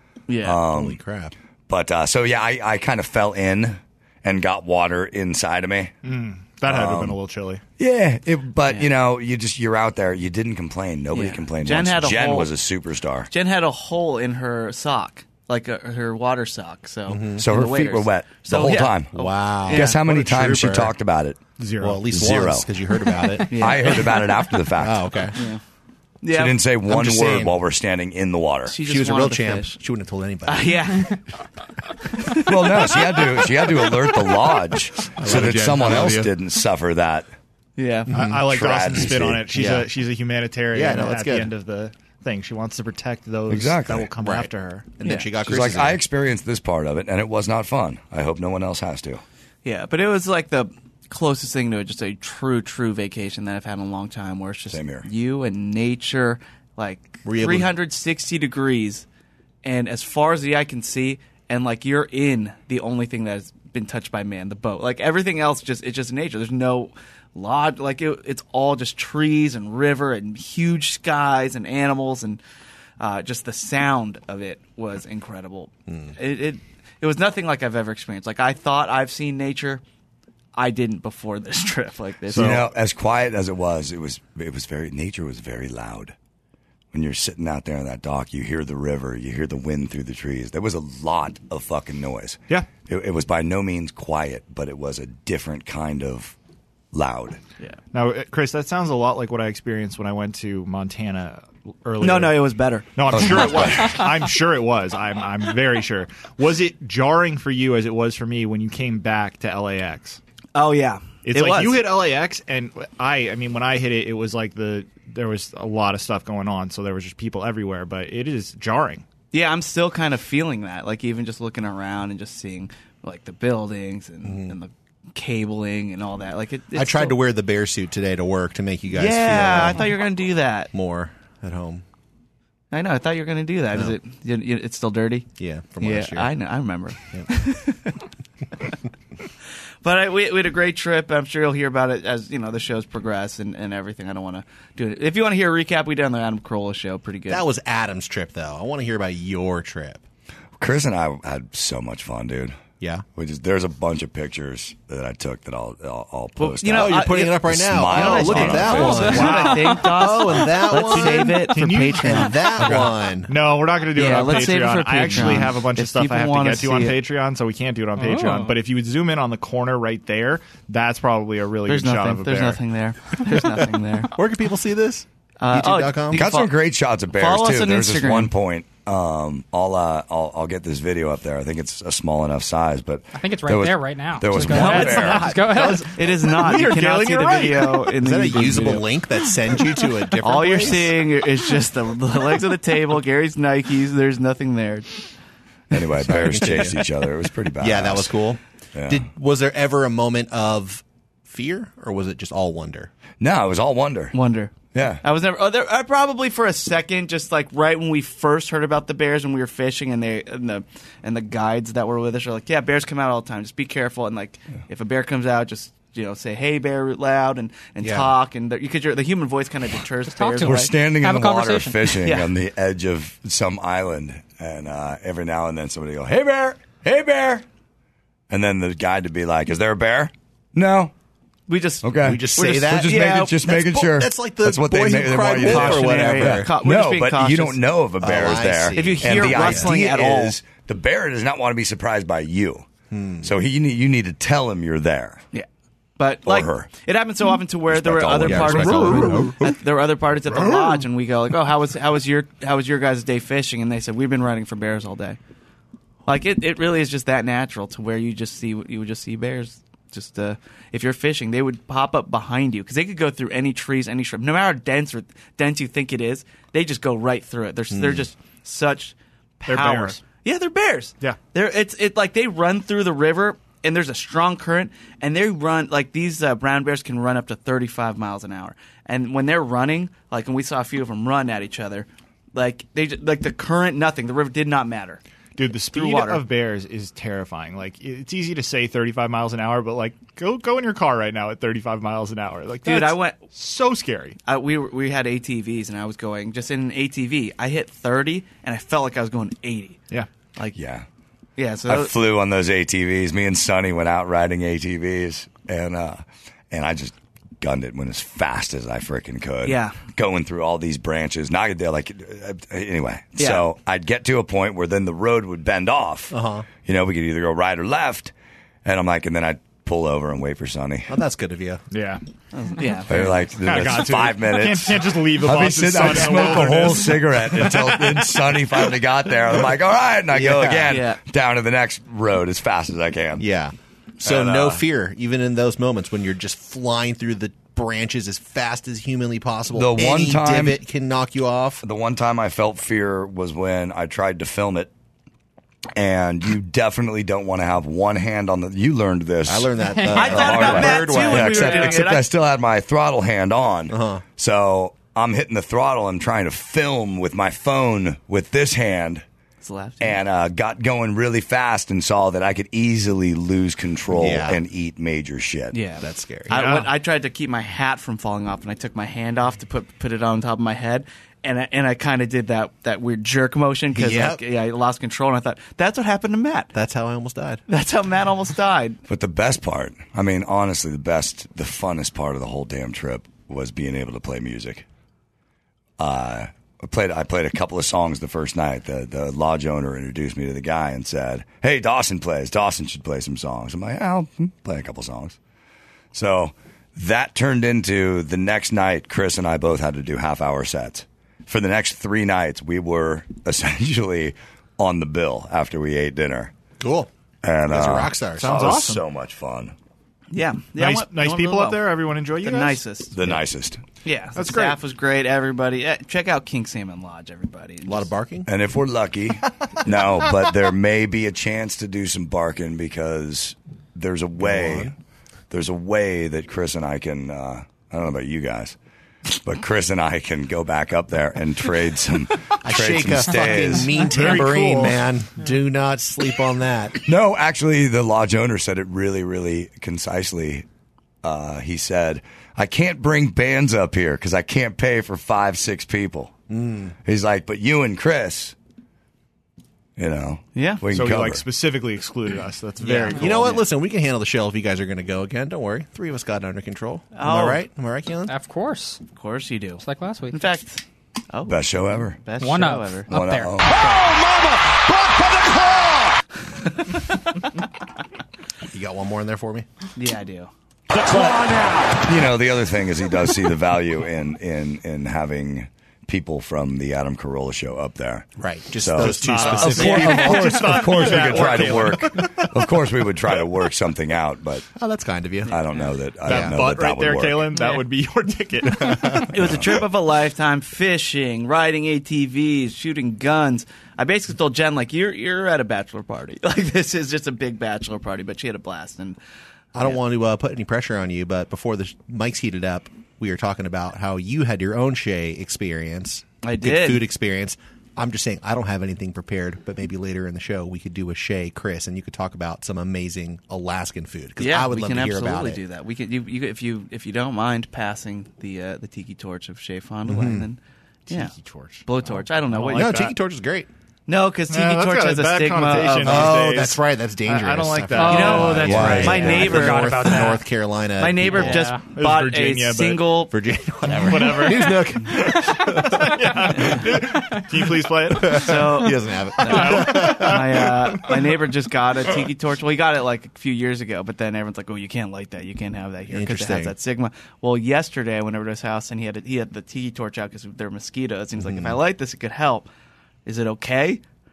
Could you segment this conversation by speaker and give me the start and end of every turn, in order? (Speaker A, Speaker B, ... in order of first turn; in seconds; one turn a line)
Speaker A: 0.3-0.6
Speaker B: 0.4-1.0
Speaker C: 0.7-1.3
Speaker B: 1.7-5.9
Speaker D: 6.0-7.6
Speaker B: 6.6-7.2
Speaker B: 7.8-13.3
Speaker A: 11.1-12.5
Speaker A: 13.3-20.0
Speaker C: 17.1-17.4
Speaker B: 17.4-19.1
Speaker C: 19.1-20.9
Speaker B: 19.7-21.5
Speaker D: 21.6-22.1
Speaker C: 21.8-23.5
Speaker B: 22.1-22.7
Speaker A: 23.5-24.2
Speaker B: 23.6-25.1
Speaker C: 24.8-25.4
Speaker A: 25.3-25.6
Speaker A: 26.2-26.6
Speaker B: 26.3-28.7
Speaker C: 26.9-27.5
Speaker A: 28.6-29.8
Speaker C: 28.8-30.9
Speaker A: 30.4-31.1
Speaker B: 32.4-37.3
Speaker C: 35.2-36.3
Speaker A: 37.8-38.1
Speaker C: 38.1-38.5
Speaker D: 38.1-44.9
Speaker B: 38.5-39.4
Speaker C: 39.0-39.9
Speaker C: 40.7-41.5
Speaker B: 43.5-44.1
Speaker C: 44.2-46.0
Speaker A: 45.0-45.3
Speaker B: 45.5-49.2
Speaker A: 49.6-59.0
Speaker B: 54.7-55.1
Speaker C: 57.2-57.7
Speaker A: 59.6-72.4
Speaker A: 73.0-79.8
Speaker C: 75.9-76.1
Speaker A: 80.5-82.6
Speaker B: 82.3-86.1
Speaker D: 82.3-82.7
Speaker B: 86.9-96.3
Speaker B: 96.9-97.4
Speaker D: 97.9-110.2
Speaker A: 102.0-102.9
Speaker B: 103.1-104.1
Speaker A: 110.5-111.9
Speaker D: 111.2-119.0
Speaker A: 119.3-127.2
Speaker C: 124.2-124.5
Speaker C: 126.7-129.9
Speaker A: 128.9-130.7
Speaker C: 130.7-131.8
Speaker A: 132.7-135.3
Speaker C: 135.4-136.3
Speaker A: 135.8-138.0
Speaker A: 139.8-147.4
Speaker C: 147.3-150.0
Speaker B: 150.6-152.6
Speaker C: 152.8-153.0
Speaker B: 153.1-159.3
Speaker A: 156.4-162.6
Speaker C: 156.7-163.3
Speaker D: 158.9-159.8
Speaker D: 160.9-172.6
Speaker A: 163.9-167.0
Speaker E: 168.0-168.5
Speaker A: 171.7-174.1
Speaker C: 174.1-176.3
Speaker A: 175.4-176.5
Speaker B: 176.1-185.3
Speaker A: 177.1-178.3
Speaker E: 183.1-185.9
Speaker A: 184.4-188.9
Speaker C: 185.3-185.7
Speaker D: 185.7-187.9
Speaker C: 188.0-190.9
Speaker A: 190.2-195.0
Speaker B: 195.7-198.2
Speaker C: 196.0-196.8
Speaker C: 197.6-202.9
Speaker B: 198.7-199.1
Speaker B: 203.2-204.2
Speaker A: 204.1-220.7
Speaker B: 204.7-205.0
Speaker C: 217.8-218.1
Speaker E: 220.1-221.8
Speaker B: 220.4-227.4
Speaker A: 222.0-222.3
Speaker B: 228.3-230.9
Speaker A: 231.5-233.3
Speaker B: 231.8-242.7
Speaker C: 232.0-236.5
Speaker A: 235.3-237.6
Speaker C: 238.0-239.7
Speaker A: 238.7-240.3
Speaker C: 242.9-243.3
Speaker B: 243.2-245.2
Speaker A: 245.3-255.2
Speaker B: 246.2-246.7
Speaker B: 247.7-249.2
Speaker C: 248.2-249.5
Speaker A: 256.1-285.0
Speaker C: 267.7-268.1
Speaker D: 269.4-270.0
Speaker D: 285.4-294.2
Speaker A: 285.7-286.2
Speaker A: 292.6-293.2
Speaker A: 294.2-299.8
Speaker B: 300.5-300.8
Speaker A: 301.4-301.9
Speaker B: 301.7-318.1
Speaker A: 309.4-309.8
Speaker A: 313.2-313.4
Speaker C: 316.1-316.5
Speaker B: 318.6-320.9
Speaker C: 320.9-321.6
Speaker D: 321.7-322.0
Speaker A: 322.3-323.2
Speaker B: 322.9-333.2
Speaker D: 323.4-328.1
Speaker C: 330.1-330.8
Speaker A: 330.7-331.0
Speaker C: 333.2-341.6
Speaker B: 334.0-334.6
Speaker B: 339.5-340.6
Speaker B: 341.6-344.7
Speaker B: 345.8-359.0
Speaker C: 349.2-351.8
Speaker E: 349.6-350.6
Speaker A: 349.9-352.1
Speaker C: 353.7-354.0
Speaker A: 359.4-360.0
Speaker B: 359.8-365.6
Speaker C: 363.9-364.4
Speaker A: 365.5-376.5
Speaker C: 365.8-366.4
Speaker D: 366.3-366.7
Speaker C: 373.7-374.2
Speaker C: 376.5-377.4
Speaker A: 377.5-378.8
Speaker B: 378.9-384.6
Speaker B: 385.8-395.2
Speaker B: 395.9-406.3
Speaker C: 406.6-406.9
Speaker B: 407.2-409.5
Speaker C: 407.5-408.5
Speaker D: 408.2-408.8
Speaker A: 410.1-413.0
Speaker D: 410.6-412.6
Speaker B: 412.9-413.6
Speaker A: 413.8-417.9
Speaker D: 414.1-414.6
Speaker C: 417.6-418.3
Speaker B: 418.2-424.7
Speaker C: 424.2-424.7
Speaker B: 425.3-428.6
Speaker B: 429.2-433.8
Speaker C: 432.4-436.8
Speaker D: 433.8-434.8
Speaker B: 436.8-440.4
Speaker B: 441.0-446.1
Speaker C: 446.3-446.7
Speaker B: 446.8-448.3
Speaker B: 449.8-451.2
Speaker A: 450.3-450.6
Speaker D: 450.7-453.4
Speaker A: 452.6-453.4
Speaker C: 452.9-458.1
Speaker A: 456.9-457.4
Speaker E: 458.1-458.8
Speaker A: 458.9-462.9
Speaker E: 459.6-460.2
Speaker B: 461.2-462.0
Speaker E: 462.2-463.9
Speaker B: 462.9-463.6
Speaker C: 463.7-465.9
Speaker C: 468.5-469.5
Speaker A: 469.8-470.3
Speaker C: 470.9-471.7
Speaker B: 471.8-484.5
Speaker C: 478.2-481.5
Speaker D: 478.8-482.2
Speaker C: 484.6-485.4
Speaker B: 485.3-487.3
Speaker C: 486.1-486.4
Speaker D: 486.1-489.1
Speaker A: 489.1-499.0
Speaker C: 499.5-515.4
Speaker A: 506.2-506.9
Speaker A: 514.2-521.1
Speaker C: 519.9-520.3
Speaker D: 520.9-522.9
Speaker A: 521.6-522.8
Speaker C: 522.5-523.5
Speaker A: 523.9-526.2
Speaker D: 524.3-529.3
Speaker C: 525.8-531.5
Speaker E: 527.7-530.2
Speaker A: 527.8-530.1
Speaker A: 530.8-533.1
Speaker E: 531.1-531.6
Speaker D: 531.7-533.0
Speaker C: 533.1-535.9
Speaker D: 533.8-538.5
Speaker C: 536.4-536.7
Speaker C: 537.9-540.5
Speaker A: 538.0-552.5
Speaker D: 539.3-540.5
Speaker C: 545.9-546.5
Speaker C: 551.2-551.6
Speaker A: 553.0-553.8